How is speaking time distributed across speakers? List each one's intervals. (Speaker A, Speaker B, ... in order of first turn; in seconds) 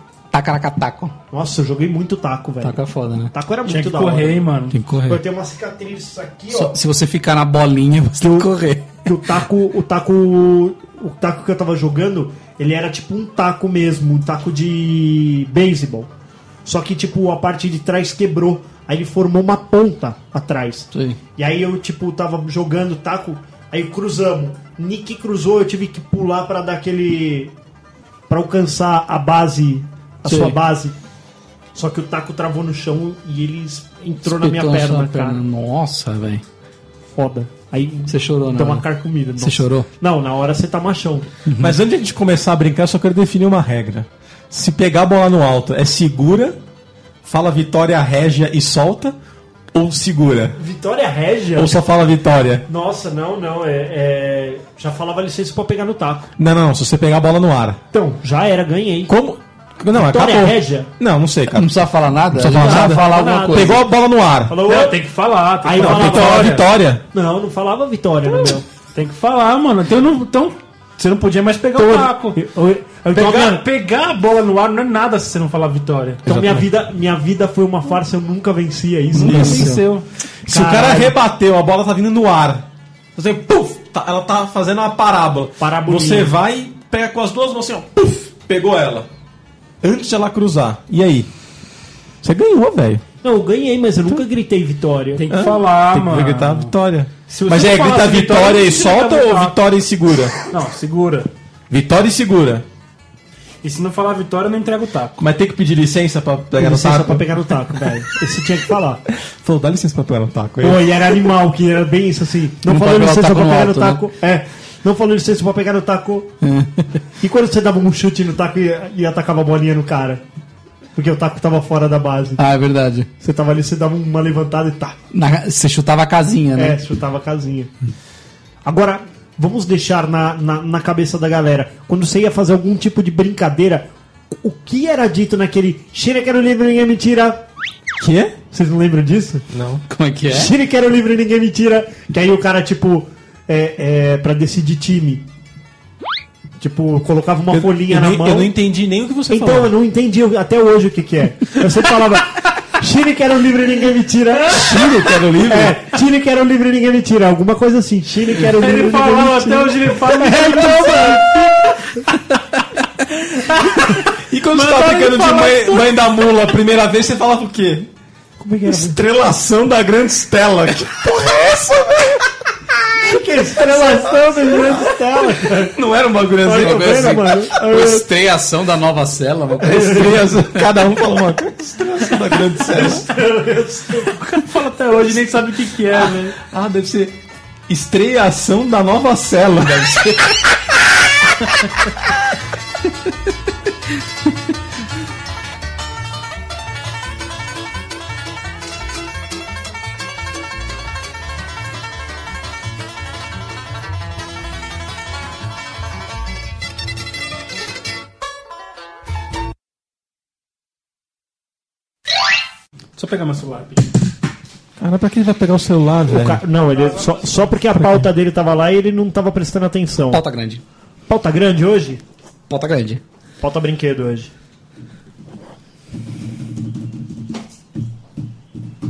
Speaker A: 0.3-1.1, 2.6-3.3, 4.7-5.2, 6.5-9.0, 20.9-21.2, 30.2-30.6, 34.2-36.4, 38.1-38.8, 39.4-39.9, 41.5-41.8, 61.5-63.8, 79.2-79.8, 112.6-114.0, 116.4-116.9, 122.4-123.1, 125.1-126.8, 139.9-140.5, 176.5-180.7, 189.9-190.2, 220.1-220.6, 222.5-223.0
Speaker B: 1.3-2.8, 3.3-4.4, 5.0-6.8, 8.2-16.1, 16.6-27.5, 28.3-30.9, 31.7-35.4, 37.1-41.3, 50.6-51.8, 52.7-56.3, 57.9-59.1, 59.9-60.9, 62.4-63.8, 64.5-65.0, 65.6-66.5, 67.1-68.7, 71.7-73.6, 76.2-79.7, 80.5-81.1, 85.6-86.3, 93.2-95.3, 106.6-109.0, 110.6-116.3, 117.2-120.2, 121.0-122.4, 123.2-125.0, 126.5-127.7, 128.6-133.9, 134.4-137.4, 138.5-139.4, 140.3-145.2, 146.6-148.5, 149.3-161.8, 168.4-169.0, 173.0-175.8, 176.4-178.1, 179.6-180.2, 182.7-184.2, 216.1-220.2, 221.1-222.0, 223.4-224.3
Speaker C: 3.6-4.8, 64.6-66.7, 68.9-72.4, 73.1-76.2, 79.2-80.0, 95.2-96.7, 97.3-99.6, 100.5-101.3, 103.6-105.2, 158.3-162.0, 163.2-166.0, 184.1-186.3, 212.9-213.9, 216.7-217.4
Speaker D: 41.6-46.6, 47.2-49.1, 49.7-50.6, 51.5-52.6, 56.4-57.8, 59.1-61.7, 62.3-64.6, 65.8-67.0, 68.3-68.6, 76.2-76.7, 79.2-79.7, 80.4-89.1, 89.8-91.3, 92.2-93.0, 95.3-100.4, 101.7-102.7, 105.2-107.6, 109.2-110.9, 138.0-138.4, 139.5-139.8, 147.5-149.7, 154.4-155.8, 164.0-167.9, 168.7-172.4, 172.9-174.9, 175.5-177.2, 179.6-183.1, 186.0-187.2, 187.7-190.2, 214.8-216.4, 217.8-218.0